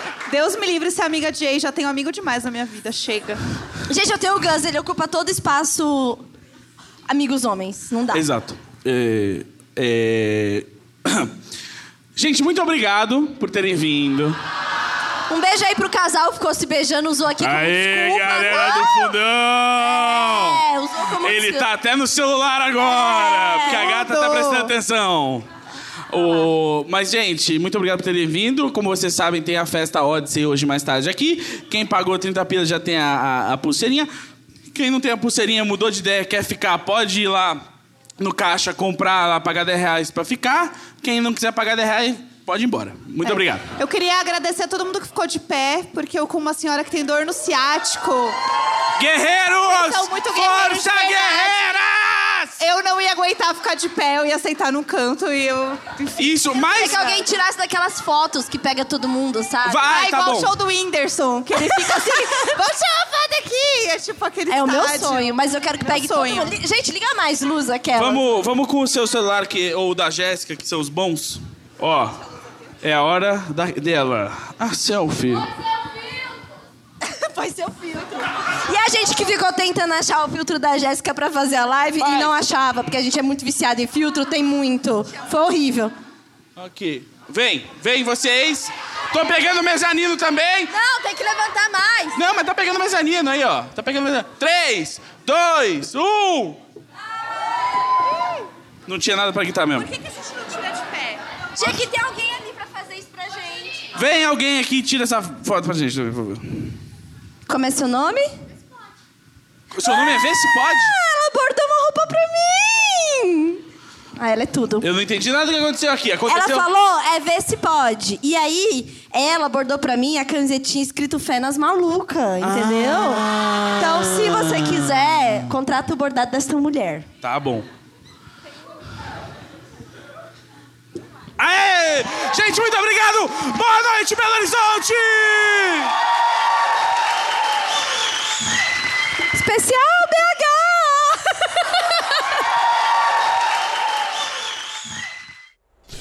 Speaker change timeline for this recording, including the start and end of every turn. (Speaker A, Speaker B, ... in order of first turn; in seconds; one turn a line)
Speaker A: 0.3-3.4
Speaker B: 3.9-6.2
Speaker B: 7.1-8.3
Speaker C: 8.1-11.3
Speaker C: 12.2-14.4
Speaker B: 15.3-19.1
Speaker C: 17.4-20.6
Speaker B: 19.9-21.7
Speaker C: 21.2-25.5
Speaker B: 22.8-24.0
Speaker A: 23.8-24.7
Speaker C: 26.1-34.1
Speaker C: 34.7-37.6
Speaker C: 38.2-43.7
Speaker A: 43.8-48.4
Speaker C: 49.0-52.6
Speaker A: 49.7-51.6
Speaker A: 52.6-56.7
Speaker C: 56.2-57.2
Speaker B: 56.6-59.9
Speaker C: 59.6-60.5
Speaker A: 59.9-65.3
Speaker B: 61.9-62.2
Speaker B: 64.5-68.2
Speaker A: 65.8-66.5
Speaker C: 68.0-72.2
Speaker C: 72.8-75.5
Speaker B: 77.0-86.0
Speaker C: 82.0-82.3
Speaker C: 86.6-90.7
Speaker B: 90.7-92.2
Speaker C: 92.2-96.6
Speaker C: 98.9-99.9
Speaker B: 101.6-103.9
Speaker C: 104.0-106.8
Speaker B: 107.5-108.3
Speaker C: 109.7-111.0
Speaker B: 109.8-113.6
Speaker B: 114.2-114.9
Speaker C: 114.8-116.7
Speaker B: 116.3-127.1
Speaker C: 122.4-123.5
Speaker C: 124.3-124.5
Speaker C: 127.2-127.7
Speaker C: 131.4-135.9
Speaker B: 139.3-142.0